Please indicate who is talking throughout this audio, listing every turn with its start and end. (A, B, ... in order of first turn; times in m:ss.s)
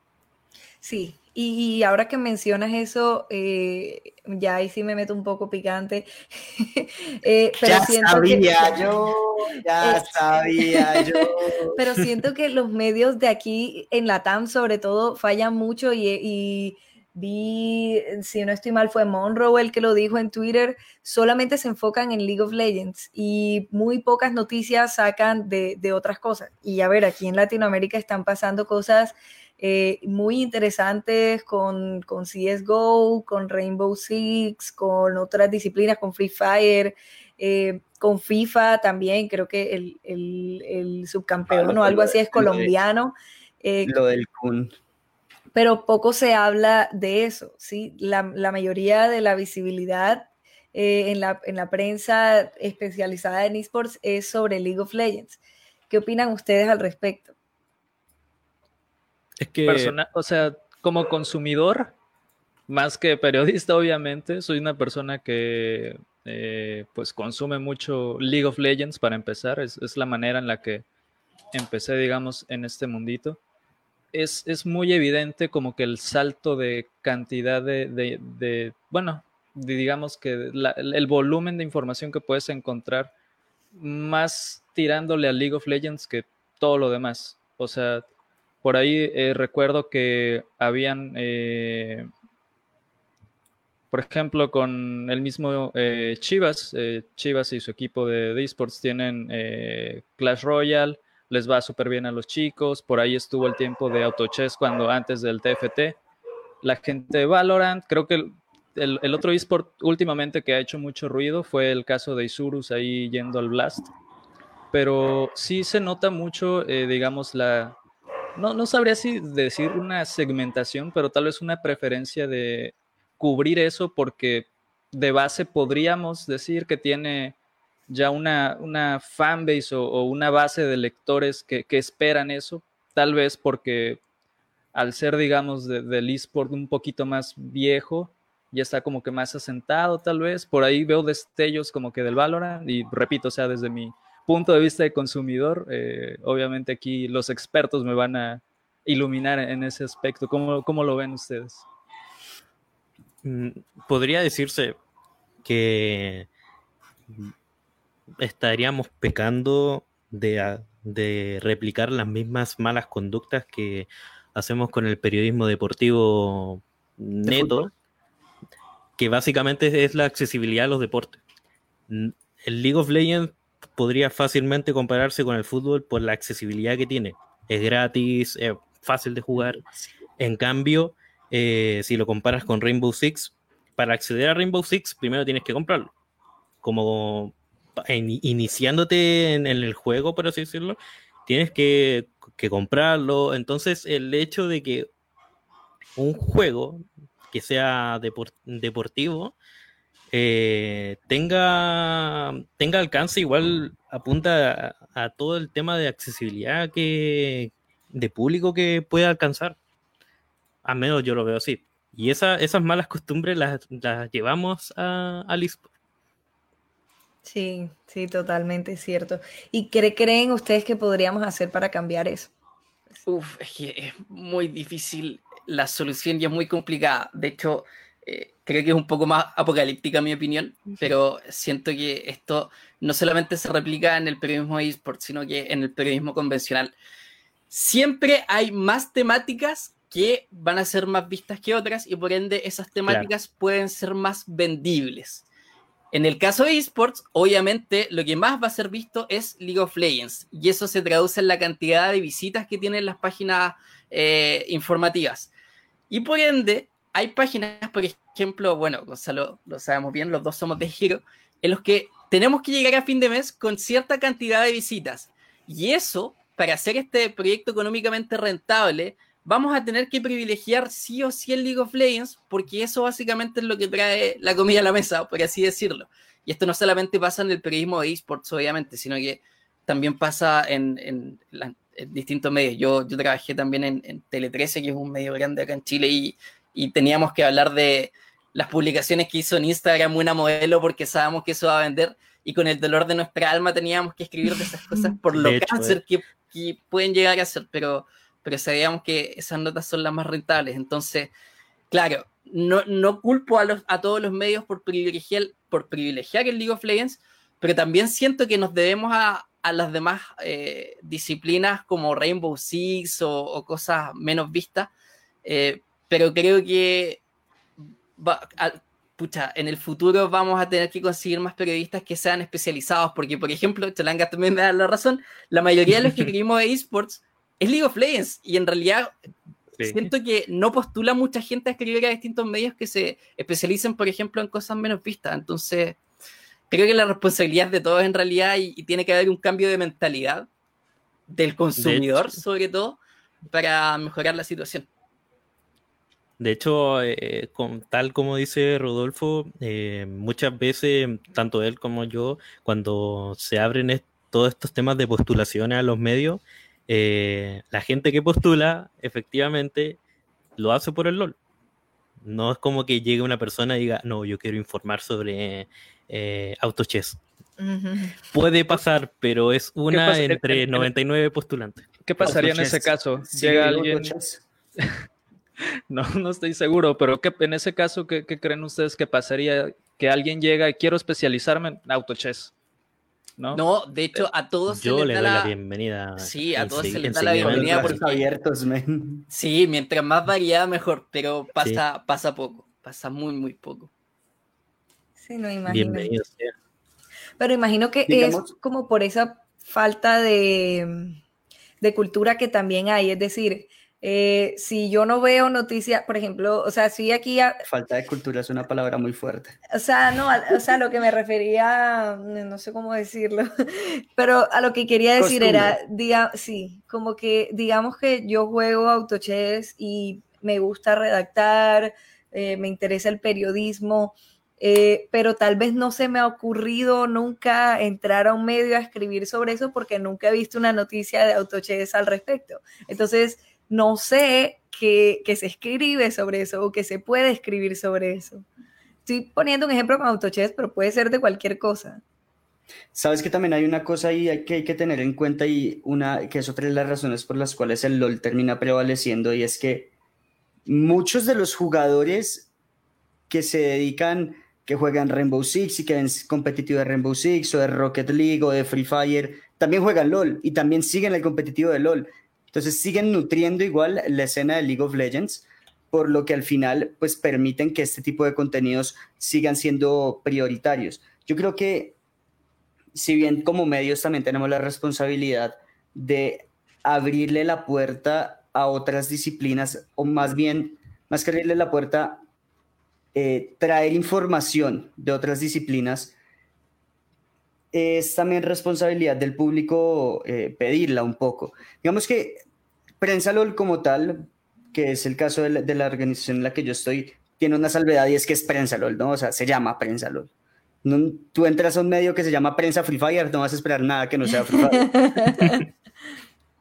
0:00.8-0:08.9 A
0:07.6-0:11.8 B
0:09.8-0:43.9 A
0:41.5-0:42.7 B
0:43.8-0:44.7 B
0:45.5-0:55.4 A
0:55.9-0:57.3 A
0:59.4-0:59.9 C
0:59.7-1:01.9 D
1:02.7-1:10.8 D
1:11.5-1:13.4 D
1:14.1-1:23.1 D
1:23.7-1:28.0 D
1:28.6-1:32.1 D
1:33.9-1:46.0 D
1:46.6-1:53.9 D
1:54.7-1:57.8 D
1:58.3-2:07.4 D
2:07.9-2:14.0 D
2:14.7-2:31.6 D
2:33.2-2:34.8 C
2:35.4-2:36.3 C
2:38.2-2:47.7 C
2:47.3-2:47.7 B
2:49.0-2:51.2 C
2:51.9-2:59.6 C
3:00.2-3:05.9 C
3:06.6-3:14.9 C
3:16.0-3:19.3 C
3:20.1-3:29.6 C
3:30.6-3:35.7 C
3:37.2-3:42.3 A
3:43.0-3:56.7 E
3:57.5-4:05.3 E
4:05.9-4:15.3 E
4:15.9-5:01.1 E
4:55.1-4:55.8 C
5:01.7-5:14.7 E
5:15.2-5:17.0 E
5:18.0-5:28.9 E
5:29.6-5:29.9 C
5:29.6-5:35.8 E
5:36.5-5:40.3 E
5:41.1-5:44.7 E
5:41.6-5:42.2 C
5:46.2-5:59.8 C
6:00.4-6:01.2 C
6:02.0-6:07.0 C
6:07.4-6:08.0 A
6:08.1-6:12.2 C
6:09.7-6:10.7 D
6:11.8-6:13.9 D
6:12.0-6:14.2 B
6:15.7-6:22.3 D
6:23.3-6:25.3 E
6:24.5-6:27.8 C
6:26.0-6:28.0 E
6:27.2-6:29.0 B
6:29.1-6:33.7 E
6:35.0-6:35.9 A
6:35.5-6:36.3 C
6:37.2-6:41.0 A
6:37.9-6:38.3 B
6:41.6-6:47.4 A
6:47.4-6:49.4 B
6:49.5-7:18.2 A
6:55.0-6:55.6 B
7:18.8-7:21.8 A
7:22.7-7:29.7 B
7:30.4-7:32.3 B
7:33.1-7:51.8 B
7:52.7-8:02.0 B
8:02.9-8:05.9 B
8:07.5-8:12.2 B
8:12.8-8:20.1 B
8:20.6-8:25.4 B
8:24.5-8:25.4 A